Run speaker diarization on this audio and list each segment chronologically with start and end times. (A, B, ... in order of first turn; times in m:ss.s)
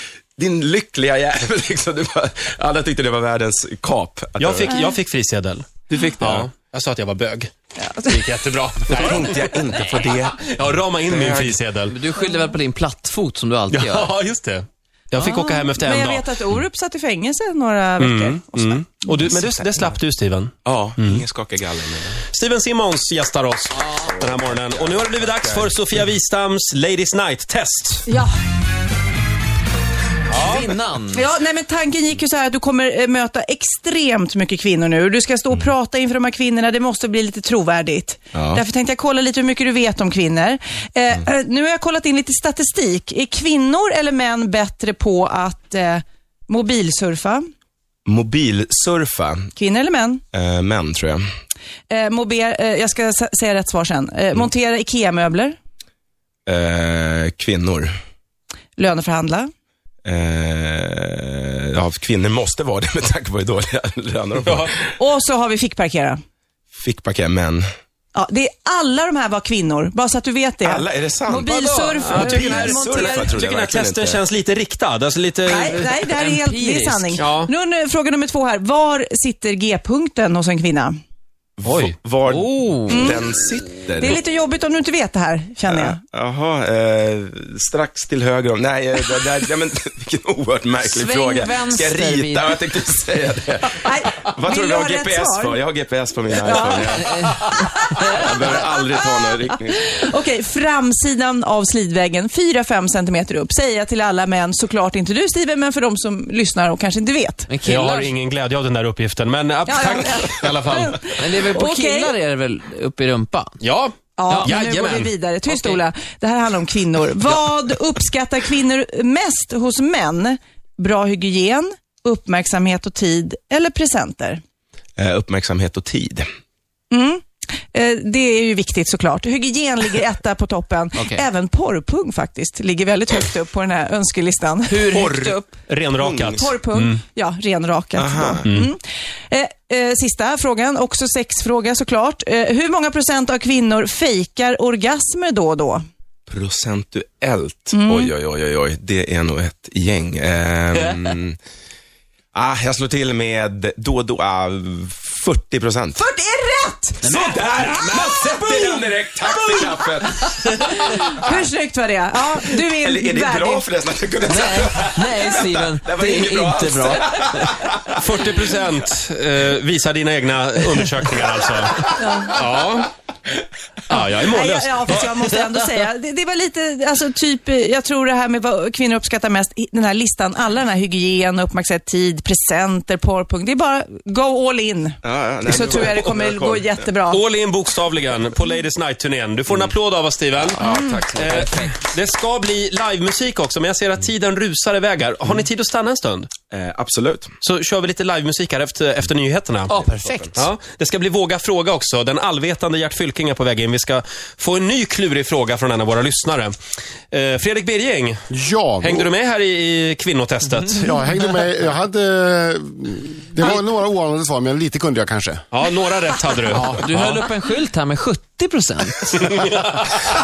0:00.4-0:04.8 A
0:04.4-0:05.7 B
0:05.9-0:06.5 A
0:06.2-0:07.5 B
0:07.8-0:08.2 C
0:08.0-0:09.6 B
0:08.9-0:10.4 A
0:10.4-0:12.0 B
0:11.0-0:11.6 A
0:11.9-0:14.2 D
0:13.7-0:16.3 B
0:15.2-0:19.3 C
0:18.0-0:21.2 B
0:19.3-0:19.8 A
0:20.6-0:22.2 A
0:22.3-0:28.1 B
0:24.0-0:25.8 A
0:28.1-0:28.3 C
0:30.3-0:30.7 B
0:30.3-0:31.2 D
0:31.1-0:47.4 C
0:38.3-0:38.6 A
0:48.0-0:49.5 A
0:49.5-0:50.2 C
0:50.3-0:51.2 A
0:51.9-0:55.6 C
0:56.5-0:57.9 A
0:58.8-0:59.5 C
1:00.0-1:04.9 A
1:04.4-1:04.7 B
1:05.0-1:06.2 C
1:06.7-1:07.6 A
1:08.1-1:13.3 C
1:10.6-1:14.2 A
1:12.0-1:16.0 B
1:15.4-1:21.0 C
1:16.1-1:17.2 D
1:17.2-1:17.5 B
1:21.6-1:24.2 A
1:21.6-1:22.0 B
1:22.3-1:23.2 D
1:22.9-1:23.2 C
1:24.0-1:26.0 C
1:25.7-1:40.0 A
1:30.8-1:32.6 D
1:33.8-1:35.6 C
1:36.4-1:37.0 C
1:36.6-1:37.4 D
1:38.0-1:39.0 C
1:39.7-1:47.6 C
1:47.5-1:48.1 D
1:47.6-1:50.3 B
1:49.6-1:52.1 C
1:50.4-1:53.6 D
1:53.6-1:55.1 B
1:54.2-2:04.4 C
1:54.3-1:54.5 D
1:55.5-1:55.8 D
2:05.0-2:06.2 A
2:06.9-2:15.4 C
2:11.0-2:11.2 D
2:14.7-2:15.5 D
2:15.7-2:17.0 B
2:16.0-2:16.6 A
2:16.3-2:25.8 C
2:18.0-2:18.5 A
2:18.4-2:18.7 B
2:26.3-2:31.4 A
2:27.7-2:28.1 C
2:32.3-2:36.0 A
2:36.0-2:37.0 C
2:37.0-2:37.4 D
2:37.0-2:40.8 A
2:38.2-2:39.7 C
2:40.8-2:43.6 C
2:42.6-2:48.0 A
2:44.3-2:47.7 D
2:47.9-2:52.9 B
2:52.0-2:52.5 C
2:53.9-2:55.1 B
2:53.9-3:07.2 C
3:05.0-3:06.9 A
3:05.5-3:06.0 B
3:07.1-3:10.6 B
3:10.5-3:11.4 A
3:11.2-3:11.8 D
3:11.2-3:16.3 B
3:16.5-3:17.3 A
3:17.4-3:19.8 B
3:19.7-3:20.3 D
3:19.8-3:20.4 A
3:20.3-3:26.5 B
3:27.1-3:28.2 B
3:28.3-3:29.1 E
3:28.8-3:30.9 B
3:30.8-3:35.4 E
3:35.5-3:37.3 B
3:36.5-3:36.8 E
3:36.6-3:39.2 D
3:39.1-3:39.9 B